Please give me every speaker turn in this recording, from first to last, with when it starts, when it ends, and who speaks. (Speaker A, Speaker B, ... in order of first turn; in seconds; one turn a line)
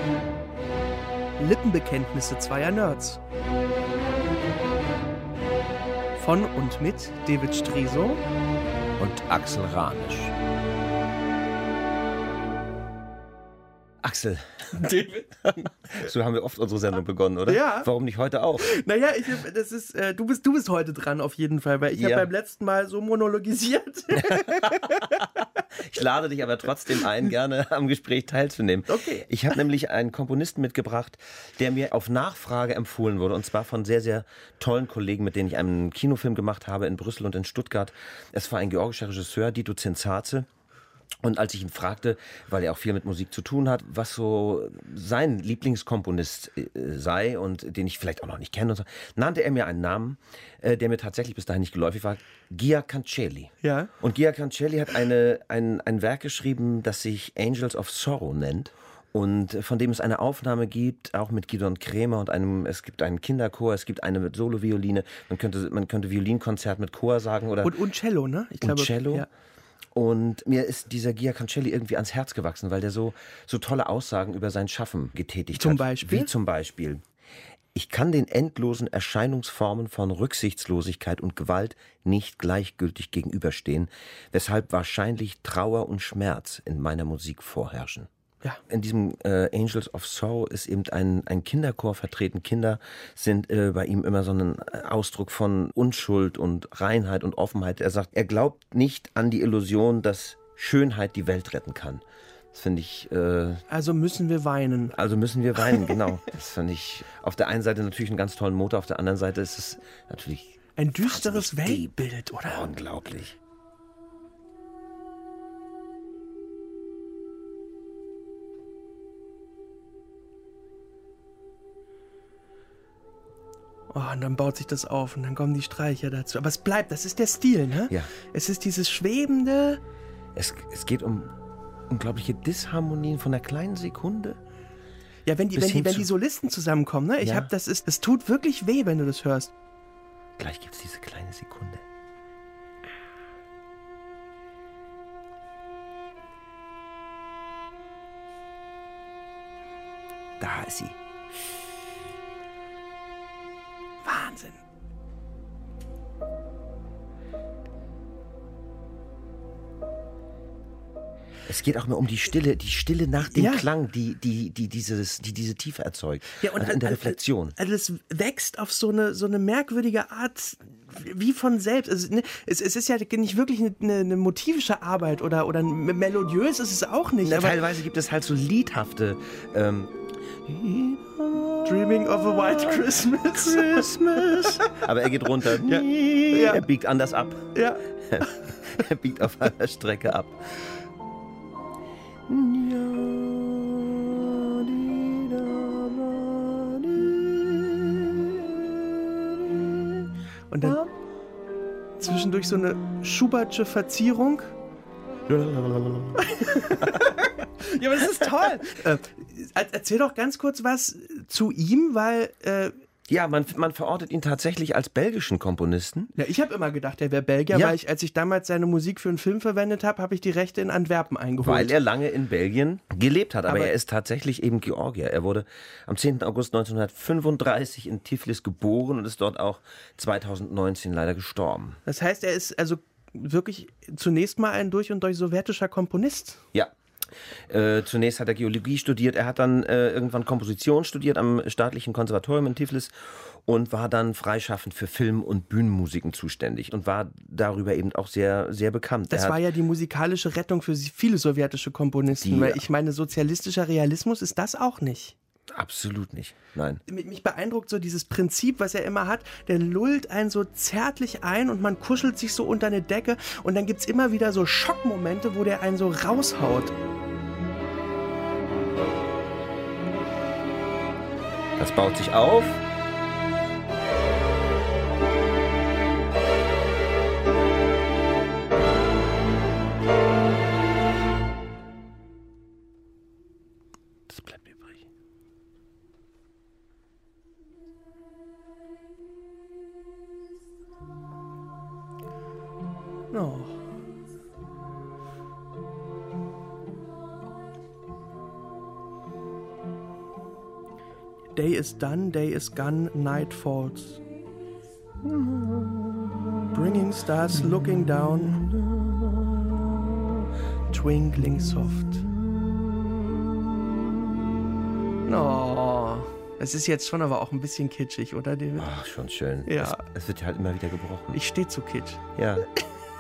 Speaker A: 1.4-3.2
Speaker A: 6.2-8.2
Speaker B: 9.0-10.3
Speaker B: 14.0-18.7
Speaker A: 14.8-15.1
Speaker A: 17.5-17.9
Speaker A: 18.6-25.0
Speaker B: 21.9-22.3
Speaker B: 24.2-40.5
Speaker A: 28.9-29.2
Speaker B: 41.2-67.7
Speaker A: 53.6-53.9
Speaker A: 67.6-69.3
Speaker B: 68.6-69.2
Speaker B: 69.9-77.0
Speaker A: 75.5-76.3
Speaker B: 77.7-88.1
Speaker B: 88.7-102.0
Speaker B: 102.5-103.6
Speaker A: 103.7-104.9
Speaker B: 104.9-111.9
Speaker A: 110.8-112.7
Speaker B: 112.5-113.4
Speaker A: 123.9-129.8
Speaker B: 130.3-131.3
Speaker B: 131.9-134.4
Speaker A: 135.2-139.5
Speaker B: 135.5-136.1
Speaker B: 137.2-137.5
Speaker B: 140.4-141.8
Speaker B: 150.4-150.9
Speaker A: 154.0-154.6
Speaker B: 161.5-167.6
Speaker A: 163.2-163.7
Speaker A: 166.4-177.7
Speaker B: 177.2-190.5
Speaker A: 181.7-184.6
Speaker A: 185.5-186.7
Speaker A: 187.5-188.6
Speaker B: 192.3-200.1
Speaker A: 200.5-200.8
Speaker B: 200.6-200.9
Speaker A: 202.0-204.5
Speaker B: 205.3-207.2
Speaker A: 206.2-212.7
Speaker B: 213.1-216.1
Speaker A: 216.2-221.7
Speaker B: 217.5-217.8
Speaker B: 221.4-231.8
Speaker A: 223.5-223.7
Speaker A: 231.8-236.4
Speaker B: 237.5-242.9
Speaker B: 243.4-249.4
Speaker A: 249.1-255.2
Speaker B: 252.1-252.6
Speaker B: 255.5-256.8
Speaker A: 256.9-266.7
Speaker B: 271.6-272.6
Speaker B: 284.1-284.8
Speaker A: 293.1-293.6
Speaker A: 301.4-304.0
Speaker B: 305.1-305.7
Speaker A: 306.5-308.4
Speaker B: 308.4-308.8
Speaker A: 310.7-312.0
Speaker A: 315.1-318.7
Speaker B: 318.6-321.2
Speaker A: 319.5-319.8
Speaker A: 321.1-322.0
Speaker B: 322.2-322.5